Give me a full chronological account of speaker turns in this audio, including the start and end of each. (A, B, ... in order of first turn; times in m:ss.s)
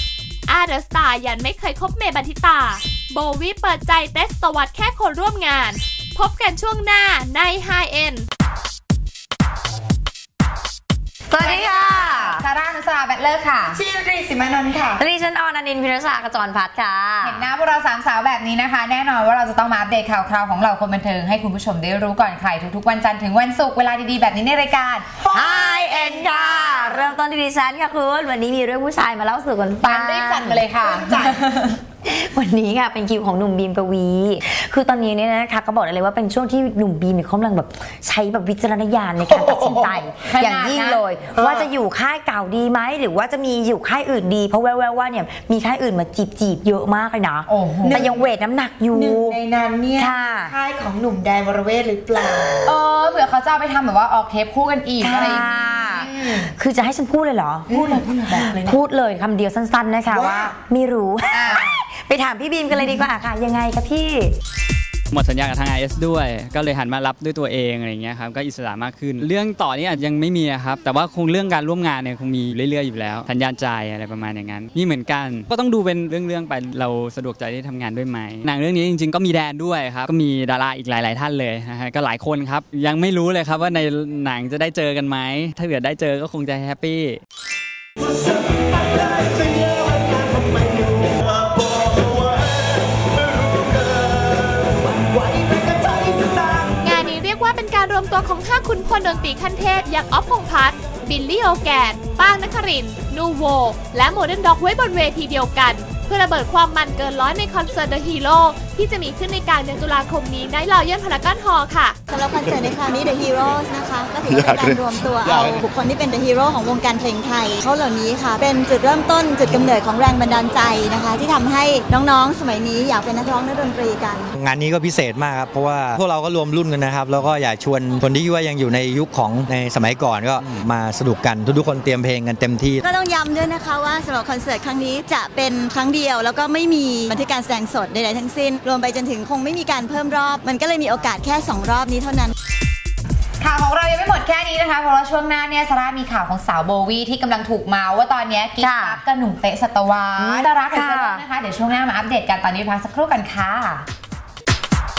0:00.5-0:08.3 A
0:11.3-0:12.4 B
0:11.4-0:13.8 C
0:13.6-0:15.0 D
0:15.0-0:17.4 B
0:17.2-0:25.2 C
0:25.2-0:26.3 D
0:25.3-0:30.7 B
0:26.0-0:27.0 C
0:29.8-0:31.7 C
0:30.8-0:31.3 D
0:32.0-0:49.4 B
0:39.2-0:40.0 D
0:40.2-0:41.1 C
0:41.3-0:41.7 D
0:47.5-0:48.1 C
0:47.8-0:48.3 D
0:48.9-0:52.7 D
0:50.0-0:50.6 B
0:52.6-0:56.1 C
0:55.0-1:04.4 B
0:57.7-0:58.8 D
1:00.1-1:00.5 D
1:01.3-1:01.6 D
1:01.4-1:01.6 C
1:02.7-1:03.0 D
1:05.1-1:27.2 E
1:36.8-1:52.0 A
1:52.1-2:04.3 F
2:04.3-2:12.8 G
2:12.8-2:22.3 F
2:23.4-2:33.9 C
2:28.6-2:29.0 B
2:30.2-2:31.2 B